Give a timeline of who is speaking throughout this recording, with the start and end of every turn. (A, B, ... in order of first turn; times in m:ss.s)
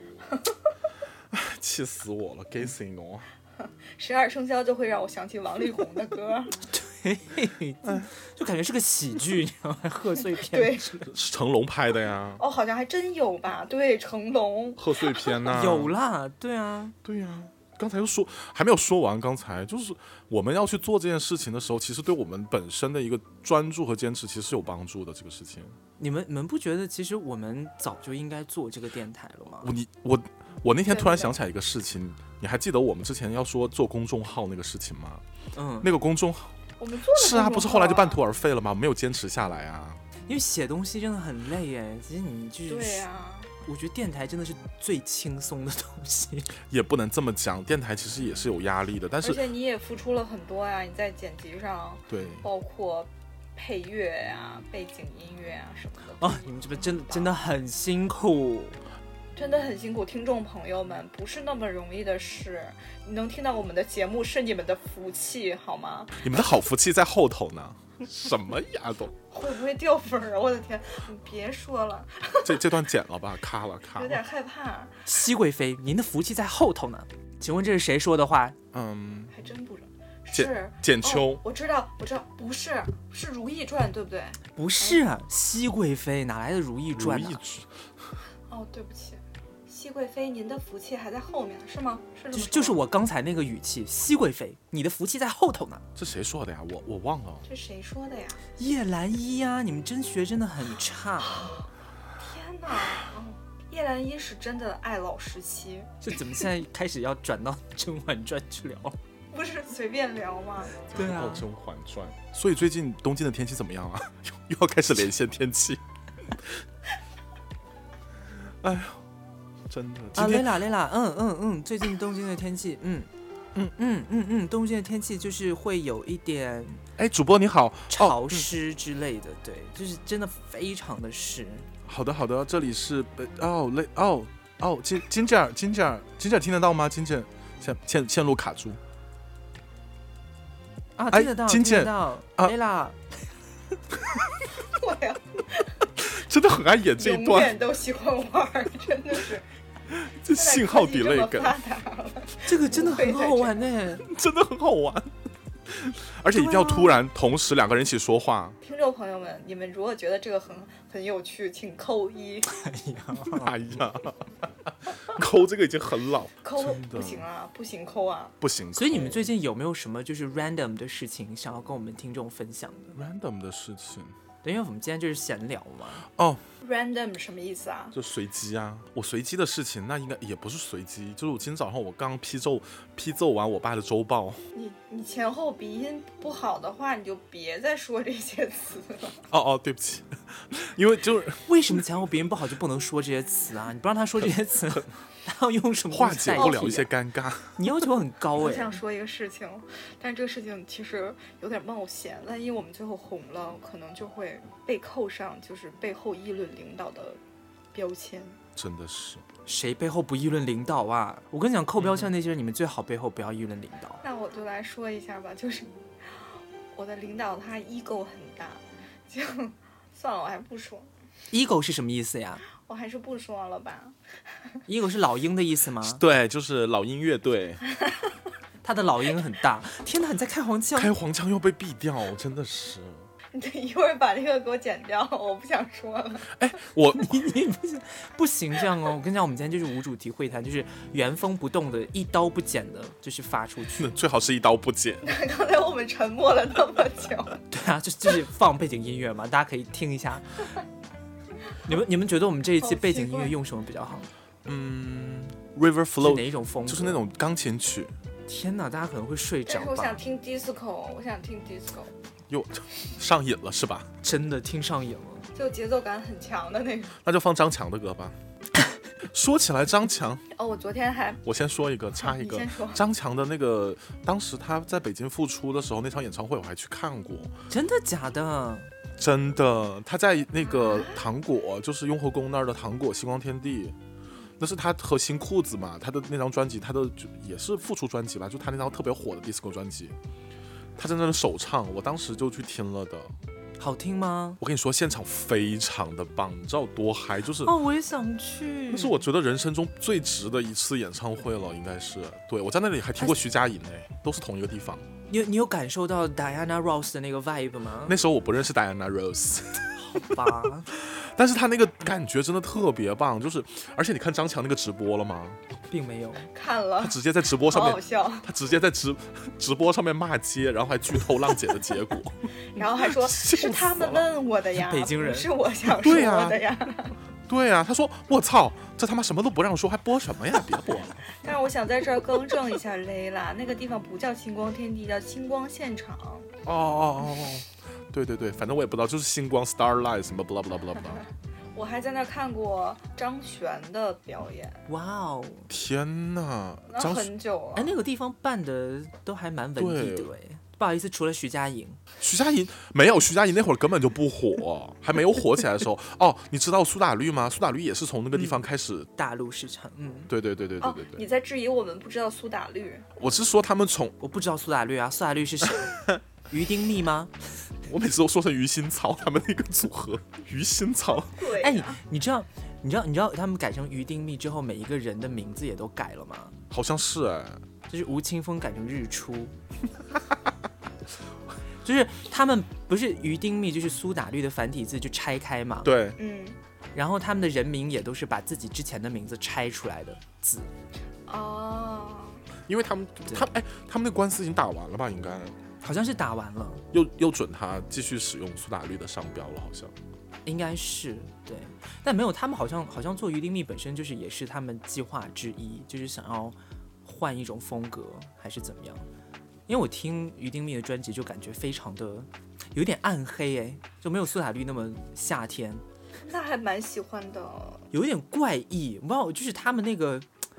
0:00.3-0:00.6 A
0:01.3-0:03.3 B
0:03.9-0:06.6 A
0:06.7-0:11.1 C
0:10.3-0:10.9 A
0:11.1-0:12.4 B
0:12.4-0:15.4 A
0:14.8-0:15.9 B
0:15.4-0:17.0 C
0:17.0-0:25.8 B
0:26.0-0:29.7 C
0:29.6-0:35.2 B
0:30.9-0:31.4 A
0:35.6-0:35.9 C
0:35.8-0:36.6 B
0:36.8-0:38.2 A
0:37.1-0:40.0 B
0:40.3-0:43.1 C
0:42.7-0:43.5 A
0:43.6-0:46.6 C
0:46.7-0:49.4 B
0:49.2-0:57.4 A
0:52.1-0:52.4 B
0:56.2-0:58.8 C
0:59.4-1:06.2 A
1:06.2-1:09.2 B
1:09.3-1:12.6 A
1:12.4-1:14.2 B
1:14.0-1:15.1 A
1:15.1-1:18.6 C
1:18.7-1:19.3 B
1:19.3-1:25.0 A
1:20.3-1:21.4 B
1:24.5-1:27.4 C
1:27.0-1:27.7 B
1:28.5-1:32.8 A
1:32.3-1:35.8 C
1:36.0-1:37.4 B
1:37.5-1:38.4 A
1:38.6-1:41.6 C
1:41.2-1:41.6 A
1:42.2-1:45.9 A
1:46.0-1:49.0 C
1:49.3-1:50.8 A
1:50.9-1:56.5 B
1:50.9-1:51.5 C
1:58.6-1:59.0 B
1:59.7-2:00.6 B
2:00.2-2:03.1 C
2:03.7-2:06.8 C
2:07.0-2:08.5 B
2:07.9-2:11.7 C
2:11.8-2:18.8 B
2:21.0-2:23.0 C
2:21.1-2:22.5 B
2:24.7-2:25.7 A
2:26.0-2:27.6 B
2:27.0-2:29.5 A
2:29.9-2:31.5 B
2:30.3-2:33.7 A
2:32.4-2:34.1 C
2:34.0-2:35.1 B
2:35.7-2:38.6 B
2:36.3-2:37.0 C
2:38.6-2:42.5 A
2:42.5-2:43.5 C
2:43.3-2:44.3 B
2:45.1-2:47.3 B
2:46.4-2:48.4 A
2:48.4-2:49.3 B
2:48.8-2:53.0 C
2:52.9-2:54.2 B
2:54.4-2:56.1 C
2:56.2-2:56.4 B
2:56.6-2:58.0 A
2:57.9-3:04.4 B
3:04.5-3:09.2 A
3:09.3-3:11.5 B
3:11.5-3:16.9 C
3:15.9-3:17.6 B
3:16.4-3:16.6 A
3:17.6-3:18.8 C
3:18.4-3:27.2 A
3:27.7-3:28.4 A
3:28.6-3:29.3 B
3:29.5-3:34.0 C
3:31.8-3:32.1 B
3:34.0-3:40.9 A
3:41.3-3:42.4 C
3:42.6-3:44.0 A
3:44.7-3:46.0 C
3:45.8-3:47.6 B
3:47.7-3:48.1 A
3:48.6-3:50.9 C
3:50.8-3:53.1 B
3:53.3-3:56.3 A
3:56.3-3:57.2 B
3:56.9-4:03.9 C
4:03.8-4:05.1 B
4:05.0-4:07.4 A
4:07.5-4:10.5 C
4:11.6-4:14.1 C
4:12.6-4:13.4 A
4:14.4-4:17.9 B
4:16.0-4:17.0 C
4:18.3-4:20.0 C
4:19.5-4:21.9 A
4:22.3-4:23.9 B
4:24.0-4:25.3 C
4:25.4-4:27.0 A
4:27.0-4:28.2 B
4:29.0-4:30.2 B
4:30.3-4:31.2 A
4:31.2-4:37.3 B
4:32.0-4:32.8 A
4:37.5-4:38.7 C
4:39.0-4:43.8 B
4:40.4-4:41.0 A
4:44.4-4:50.0 B
4:50.8-4:53.1 B
4:53.6-4:54.4 C
4:54.4-4:57.6 B
4:57.4-4:59.0 C
4:58.7-5:04.9 B
5:05.1-5:08.0 C
5:07.9-5:15.4 B
5:09.8-5:10.7 C
5:15.7-5:16.3 C
5:16.3-5:18.3 A
5:16.8-5:24.1 B
5:22.6-5:27.0 A
5:24.6-5:25.3 C
5:25.8-5:26.4 B
5:27.3-5:31.1 B
5:31.2-5:36.3 A
5:36.4-5:41.0 B
5:41.6-5:44.6 A
5:44.7-5:45.5 C
5:45.5-5:47.1 B
5:46.7-5:47.8 A
5:47.6-5:51.8 C
5:49.6-5:50.1 B
5:52.0-5:58.9 B
5:58.1-5:58.4 C
5:59.0-6:00.1 C
6:00.1-6:01.0 B
6:00.6-6:02.9 A
6:03.0-6:04.0 B
6:04.0-6:07.1 C
6:07.6-6:11.2 B
6:11.1-6:11.8 A
6:11.4-6:16.4 C
6:16.5-6:17.4 B
6:17.7-6:19.3 C
6:21.6-6:25.8 C
6:25.6-6:26.0 B
6:26.0-6:26.4 A
6:26.8-6:30.5 C
6:31.1-6:32.2 A
6:32.5-6:35.4 B
6:35.6-6:36.6 C
6:36.7-6:39.7 B
6:40.3-6:48.9 C
6:49.5-6:55.6 C
6:56.0-6:57.7 A
6:57.7-7:00.1 C